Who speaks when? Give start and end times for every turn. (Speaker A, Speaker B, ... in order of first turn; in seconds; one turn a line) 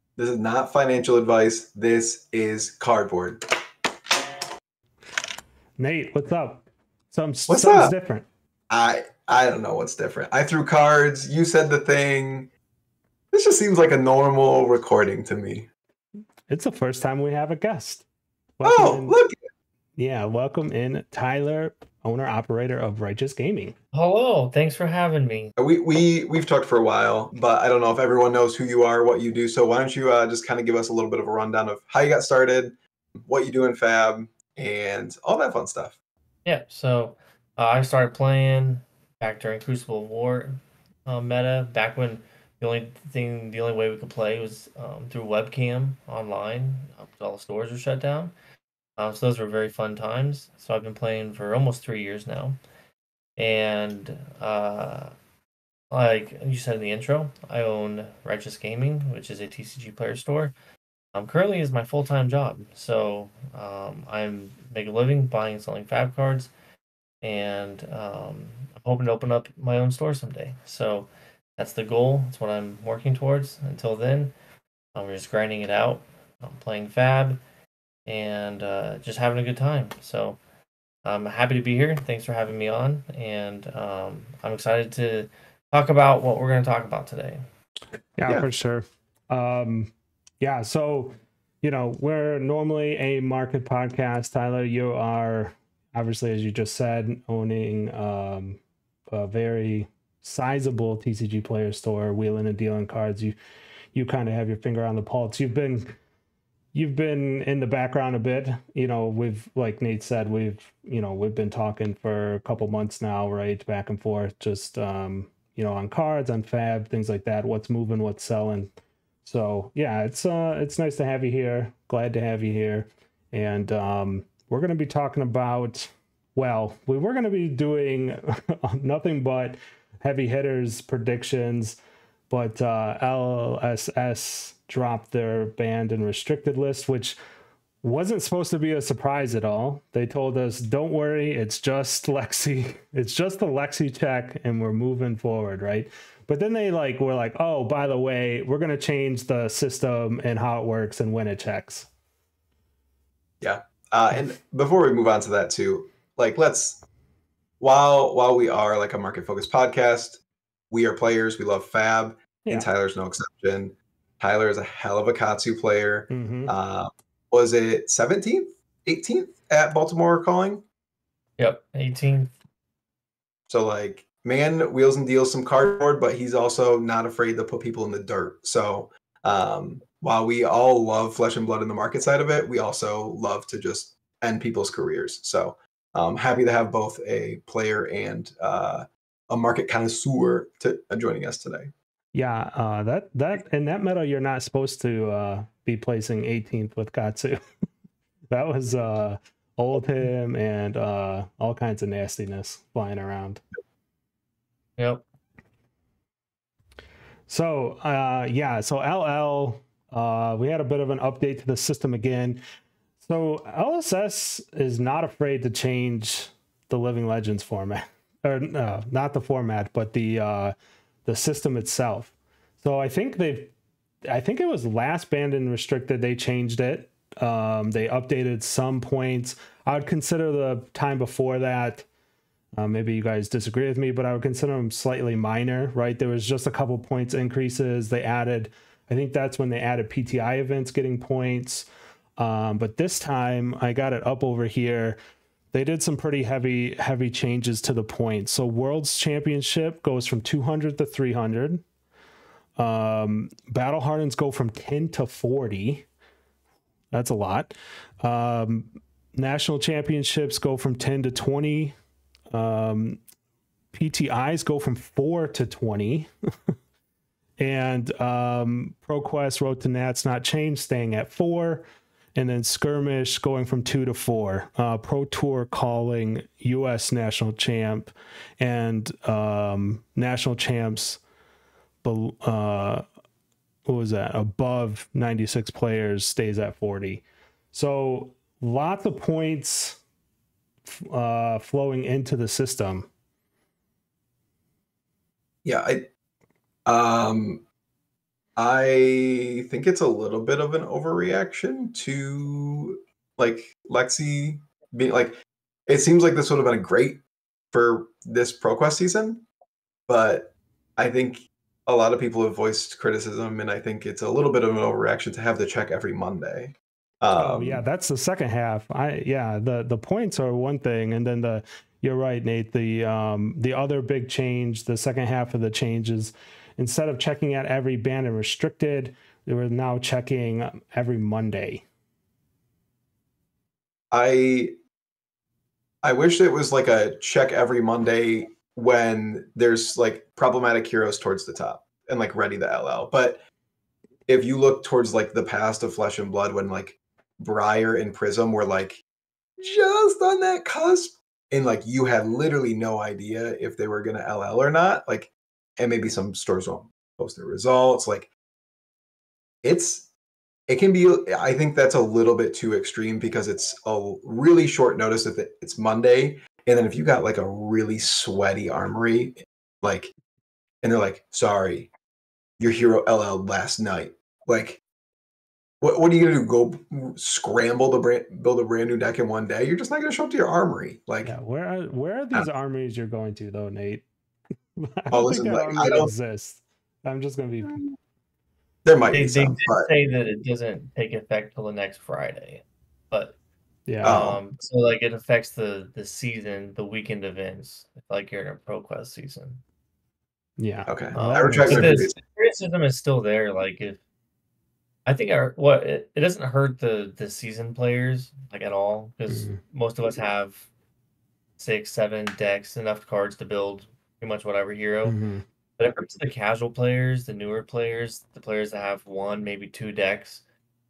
Speaker A: 0.2-3.4
Speaker B: 5.8-8.3
Speaker A: 7.5-7.9
Speaker A: 8.7-12.5
Speaker A: 13.3-15.7
Speaker B: 16.5-18.1
Speaker B: 18.6-19.2
Speaker A: 18.6-19.4
Speaker B: 20.0-23.8
Speaker C: 23.9-25.5
Speaker A: 25.6-36.0
Speaker C: 36.5-48.3
Speaker C: 49.0-52.6
Speaker C: 53.4-55.1
Speaker C: 55.9-60.5
Speaker C: 61.1-66.5
Speaker C: 67.2-74.3
Speaker C: 74.9-77.4
Speaker C: 78.1-80.4
Speaker C: 81.0-87.4
Speaker B: 88.2-103.3
Speaker B: 103.9-105.9
Speaker B: 106.7-118.7
Speaker B: 119.2-131.8
Speaker B: 132.3-137.2
Speaker B: 137.8-151.9
Speaker A: 153.4-156.8
Speaker A: 157.6-170.6
Speaker B: 166.1-166.5
Speaker C: 171.4-172.3
Speaker A: 173.5-191.7
Speaker B: 192.1-197.4
Speaker B: 198.3-203.4
Speaker C: 204.8-205.0
Speaker B: 207.3-212.4
Speaker B: 213.0-220.5
Speaker B: 221.1-223.5
Speaker B: 224.1-231.9
Speaker B: 232.6-245.0
Speaker B: 245.5-251.6
Speaker B: 252.6-255.9
Speaker B: 256.9-261.8
Speaker B: 262.3-263.0
Speaker B: 263.7-266.1
Speaker B: 267.4-281.0
Speaker B: 281.8-282.9
Speaker B: 283.7-289.8
Speaker B: 290.7-292.9
Speaker A: 295.4-295.9
Speaker A: 296.7-297.4
Speaker A: 298.4-309.3
Speaker A: 309.9-317.6
Speaker B: 317.1-331.6
Speaker A: 333.9-334.6
Speaker A: 335.8-343.2
Speaker A: 344.1-348.8
Speaker A: 349.4-358.1
Speaker A: 359.4-359.9
Speaker A: 360.5-369.9
Speaker A: 370.6-371.7
Speaker A: 372.4-374.6
Speaker A: 375.6-381.1
Speaker B: 381.0-383.9
Speaker B: 384.6-387.6
Speaker A: 384.9-385.9
Speaker A: 387.5-387.8
Speaker A: 388.6-389.7
Speaker C: 388.9-393.2
Speaker B: 393.7-394.0
Speaker A: 393.8-394.2
Speaker C: 393.8-399.4
Speaker B: 400.4-401.9
Speaker A: 400.7-402.0
Speaker C: 400.9-403.8
Speaker C: 404.9-410.5
Speaker B: 409.1-409.4
Speaker C: 411.4-415.0
Speaker B: 414.9-415.2
Speaker C: 415.6-420.2